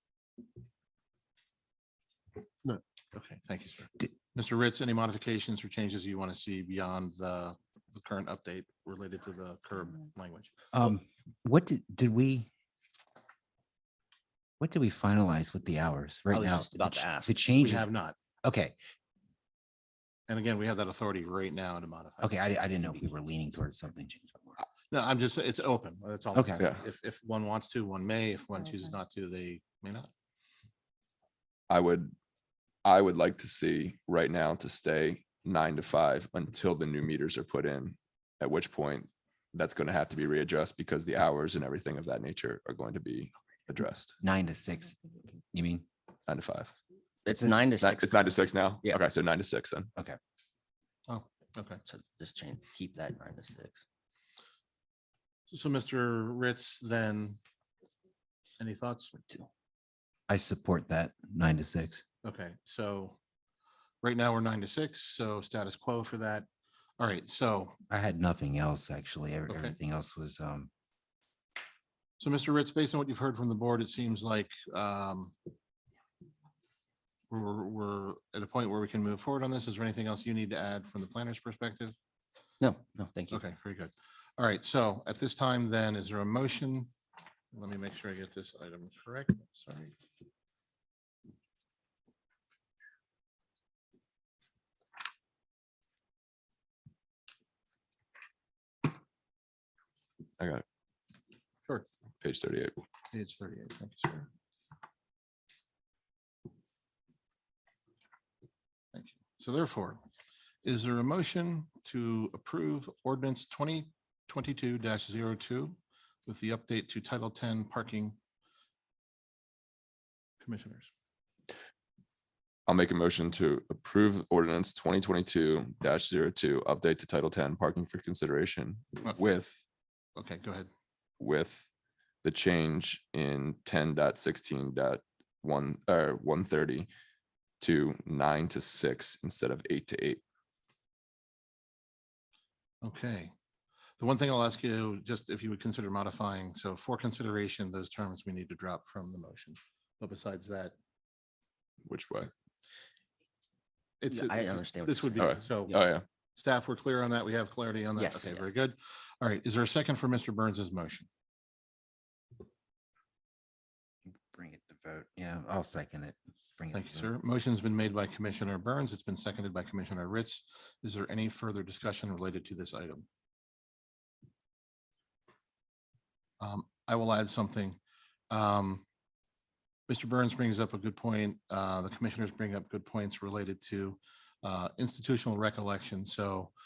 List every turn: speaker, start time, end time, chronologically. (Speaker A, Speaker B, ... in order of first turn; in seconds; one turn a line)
Speaker A: 3.1-10.5
Speaker B: 10.7-12.5
Speaker B: 14.6-17.9
Speaker C: 16.3-17.5
Speaker A: 17.6-18.2
Speaker B: 18.4-18.8
Speaker A: 20.3-22.3
Speaker B: 22.2-24.4
Speaker A: 24.9-30.1
Speaker B: 26.3-26.6
Speaker D: 31.7-32.1
Speaker D: 32.8-44.2
Speaker B: 44.2-45.9
Speaker D: 46.3-46.7
Speaker C: 47.2-49.0
Speaker D: 47.8-49.9
Speaker A: 51.1-51.8
Speaker C: 51.9-53.8
Speaker A: 55.5-57.4
Speaker A: 58.6-59.2
Speaker B: 60.3-62.0
Speaker A: 62.2-63.2
Speaker A: 64.0-66.5
Speaker A: 67.0-67.8
Speaker B: 67.9-70.7
Speaker A: 69.5-69.8
Speaker A: 72.2-75.3
Speaker A: 77.3-82.0
Speaker C: 82.6-83.4
Speaker A: 83.3-86.9
Speaker A: 87.5-89.9
Speaker D: 100.4-100.6
Speaker D: 102.2-102.8
Speaker A: 103.1-104.3
Speaker A: 108.9-110.0
Speaker A: 110.7-118.2
Speaker A: 120.4-120.9
Speaker D: 122.7-129.6
Speaker A: 130.2-130.7
Speaker D: 131.2-131.7
Speaker D: 132.2-136.9
Speaker D: 137.6-140.2
Speaker A: 142.8-143.3
Speaker A: 144.0-150.7
Speaker D: 151.9-152.3
Speaker A: 154.0-155.8
Speaker C: 154.1-155.9
Speaker D: 155.2-156.1
Speaker A: 156.4-161.1
Speaker C: 158.0-158.5
Speaker B: 164.3-167.1
Speaker A: 166.7-173.1
Speaker A: 176.4-177.8
Speaker A: 178.3-178.8
Speaker A: 179.9-186.5